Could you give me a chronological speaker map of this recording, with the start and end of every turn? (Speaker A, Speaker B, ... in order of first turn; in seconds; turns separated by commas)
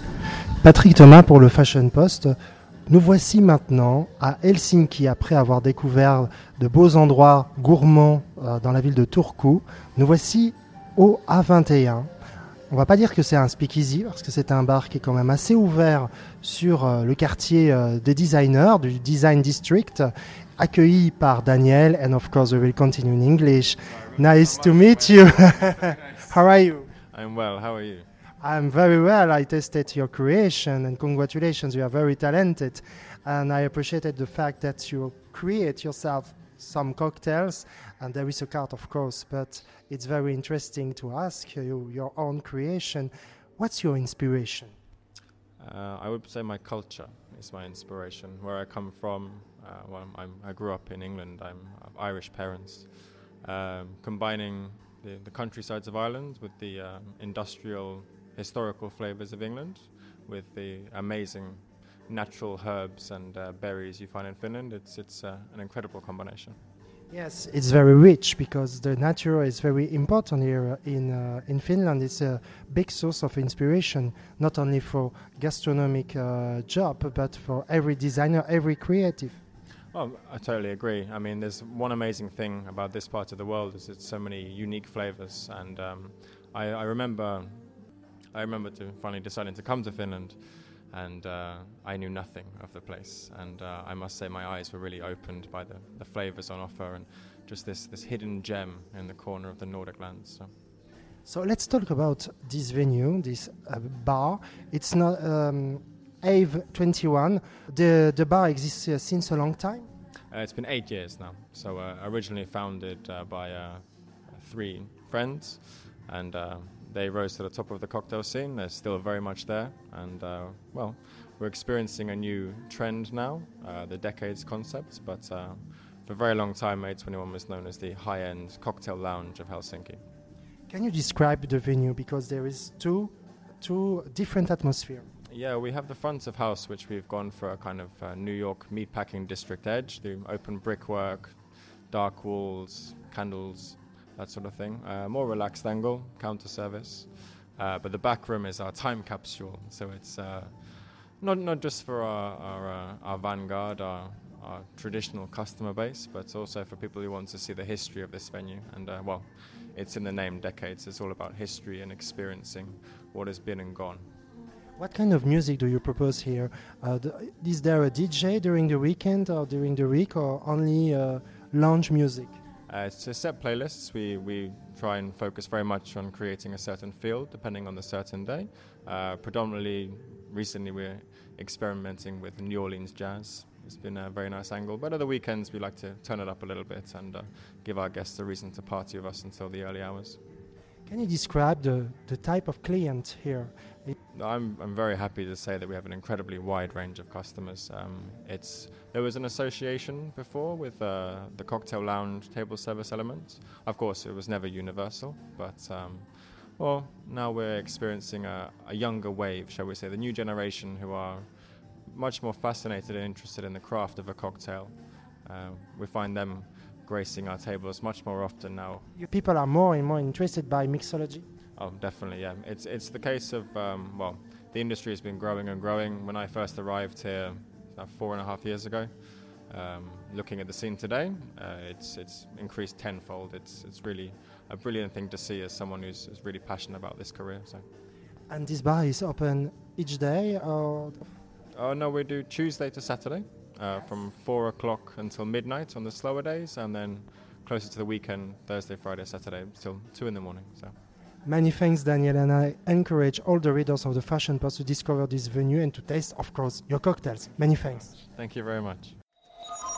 Speaker A: 0.6-2.4, Speaker A: 2.9-12.1, Speaker A: 12.7-26.9, Speaker B: 27.1-28.1, Speaker A: 28.4-44.7, Speaker B: 45.6-66.6, Speaker A: 67.1-79.4, Speaker B: 79.9-87.8, Speaker B: 88.3-100.5, Speaker A: 101.2-109.9, Speaker B: 110.3-130.0, Speaker A: 130.7-135.1, Speaker B: 135.3-164.1, Speaker A: 164.8-172.3, Speaker B: 172.7-190.2, Speaker A: 190.8-193.9, Speaker B: 194.1-211.3, Speaker B: 211.8-218.9, Speaker A: 218.9-221.2, Speaker B: 221.6-237.6, Speaker A: 238.3-241.0, Speaker B: 241.5-250.7, Speaker A: 251.2-257.9, Speaker B: 257.8-258.9